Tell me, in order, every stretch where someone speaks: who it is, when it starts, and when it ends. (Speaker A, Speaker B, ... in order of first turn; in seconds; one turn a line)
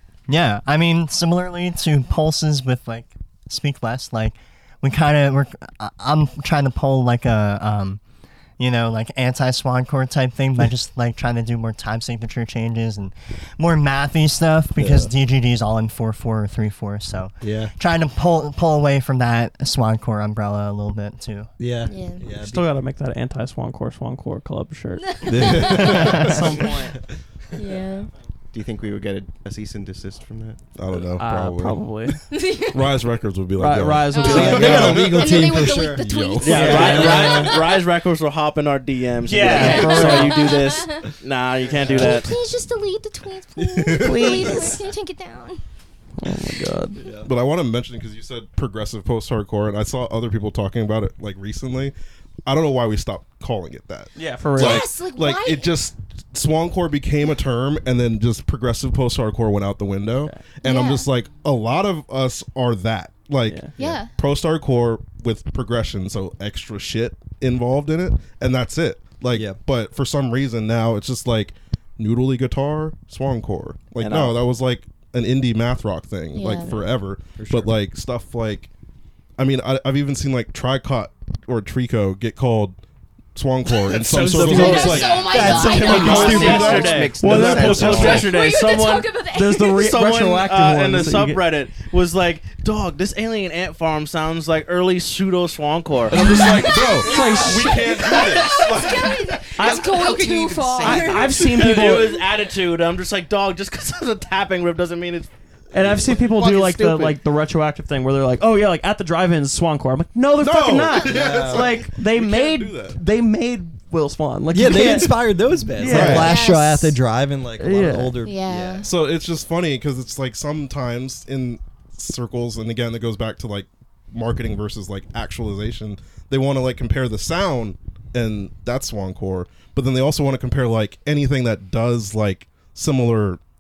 Speaker A: 0.3-8.0
Speaker A: 8.6-21.5
Speaker B: 14.8-15.1
Speaker C: 17.4-17.7
Speaker C: 21.6-22.8
Speaker D: 21.9-22.2
Speaker E: 22.4-27.1
Speaker D: 25.1-26.1
Speaker B: 25.2-26.7
Speaker D: 27.6-28.1
Speaker F: 28.5-31.1
Speaker B: 30.8-37.3
Speaker E: 31.2-32.4
Speaker D: 32.3-32.8
Speaker E: 33.6-35.1
Speaker D: 34.1-37.8
Speaker C: 34.2-36.3
Speaker G: 36.4-42.3
Speaker E: 36.4-37.6
Speaker E: 39.2-40.6
Speaker D: 39.5-41.0
Speaker D: 41.9-45.6
Speaker B: 43.8-44.7
Speaker E: 44.0-44.8
Speaker E: 46.2-47.0
Speaker C: 47.0-47.3
Speaker B: 47.2-51.9
Speaker B: 52.5-78.7
Speaker E: 54.2-54.9
Speaker D: 54.6-55.7
Speaker D: 60.6-61.1
Speaker D: 63.8-64.1
Speaker C: 69.3-69.6
Speaker G: 74.0-74.4
Speaker D: 76.3-76.8
Speaker C: 77.4-77.7
Speaker B: 79.4-82.8
Speaker B: 83.3-88.2
Speaker C: 84.1-86.8
Speaker D: 84.4-87.0
Speaker G: 85.0-89.1
Speaker F: 85.4-88.3
Speaker E: 87.2-88.2
Speaker D: 88.0-89.9
Speaker E: 89.3-91.4
Speaker G: 89.7-96.5
Speaker B: 96.1-99.5
Speaker E: 96.1-98.3
Speaker D: 96.2-101.4
Speaker E: 99.6-100.0
Speaker F: 99.6-101.4
Speaker E: 100.8-102.2
Speaker G: 100.9-107.2
Speaker E: 105.7-116.3
Speaker B: 110.4-113.0
Speaker C: 111.0-111.8
Speaker C: 114.5-118.9
Speaker B: 115.8-116.3
Speaker D: 116.0-117.0
Speaker E: 117.6-118.2
Speaker D: 118.2-118.9
Speaker B: 118.8-133.4